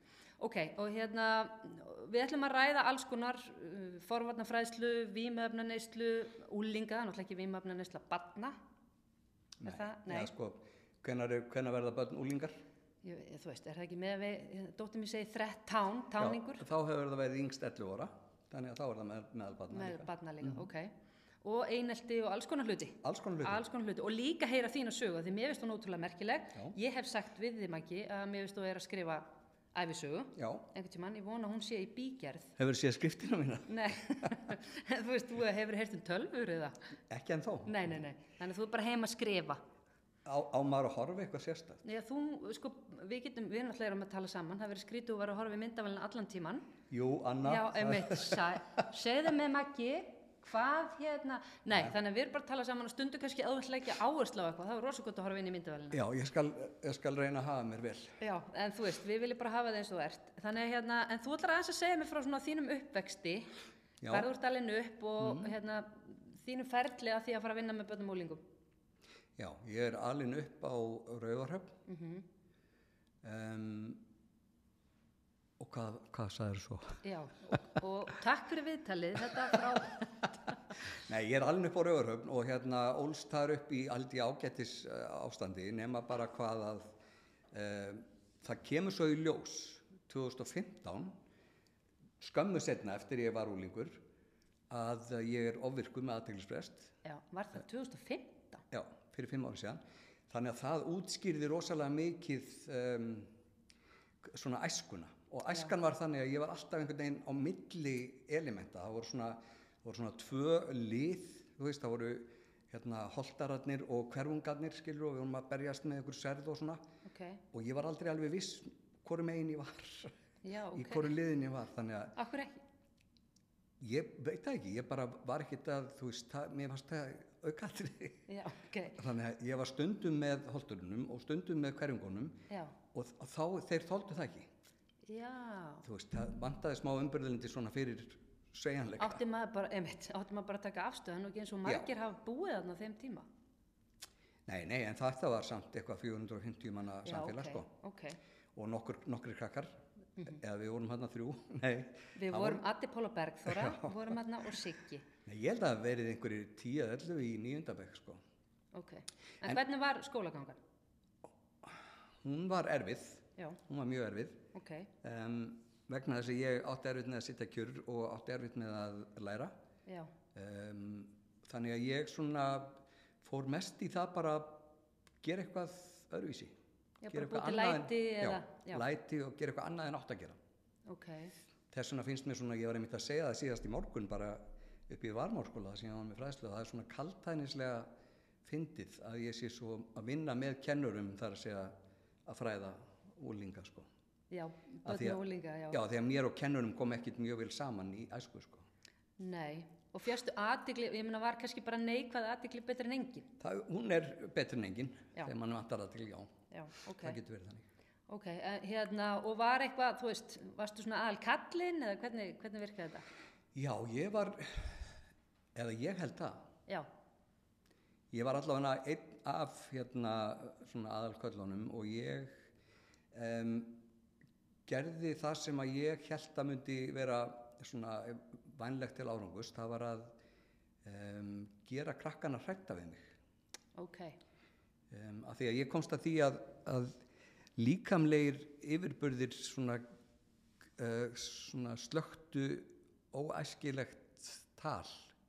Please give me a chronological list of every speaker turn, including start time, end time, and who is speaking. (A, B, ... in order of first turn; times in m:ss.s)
0:00.4-0:08.6 A
0:09.6-0:12.6 B
0:09.6-0:10.3 A
0:13.0-0:16.6 A
0:16.2-0:20.7 B
0:19.7-0:20.9 A
0:21.4-0:32.6 A
0:23.0-0:23.6 B
0:30.4-0:30.6 B
0:32.6-0:34.3 B
0:33.7-0:36.8 A
0:37.1-0:37.9 B
0:37.6-0:39.6 A
0:40.2-0:41.8 B
0:41.8-0:46.7 A
0:46.9-0:48.9 B
0:47.4-0:56.0 A
0:55.9-0:58.2 B
0:58.2-1:03.5 A
1:04.0-1:04.3 B
1:04.1-1:08.4 A
1:05.2-1:05.5 B
1:09.4-1:11.8 B
1:11.9-1:12.2 A
1:13.2-1:14.0 B
1:15.6-1:17.0 B
1:17.0-1:20.5 A
1:19.3-1:20.1 B
1:20.8-1:26.9 B
1:27.5-1:31.2 B
1:32.2-1:34.0 B
1:34.7-1:36.9 B
1:37.0-1:38.6 A
1:38.7-1:43.3 B
1:44.2-1:56.8 B
1:57.0-1:57.4 A
1:57.5-2:00.1 B
2:00.4-2:01.1 A
2:00.7-2:02.1 B
2:02.2-2:02.6 A
2:03.8-2:08.3 B
2:08.3-2:09.0 A
2:08.9-2:14.5 B
2:12.5-2:12.7 A
2:15.0-2:15.8 A
2:15.8-2:19.2 B
2:19.0-2:23.2 A
2:24.5-2:27.7 B
2:27.0-2:28.2 A
2:28.5-2:32.6 B
2:32.1-2:35.1 A
2:33.4-2:34.2 B
2:35.2-2:38.2 B
2:38.7-2:40.6 A
2:41.6-2:44.4 B
2:44.5-2:44.9 A
2:45.0-2:49.5 B
2:50.3-2:54.7 B
2:55.2-2:56.5 B
2:57.0-2:58.8 A
2:57.1-3:00.4 B
3:00.9-3:01.3 A
3:01.7-3:07.9 B
3:08.4-3:11.7 B
3:12.2-3:13.9 B
3:14.3-3:15.8 A
3:14.8-3:18.6 B
3:19.2-3:23.3 A
3:23.4-3:26.3 B
3:26.5-3:27.2 A
3:26.9-3:27.6 B
3:28.1-3:33.0 A
3:33.5-3:34.9 B
3:35.5-3:36.5 B
3:38.1-3:42.4 B
3:43.1-3:43.8 B
3:44.7-3:50.1 B
3:50.8-3:53.1 B
3:53.8-3:54.2 A
3:54.9-3:57.0 B
3:57.6-3:59.8 B
4:00.8-4:05.1 B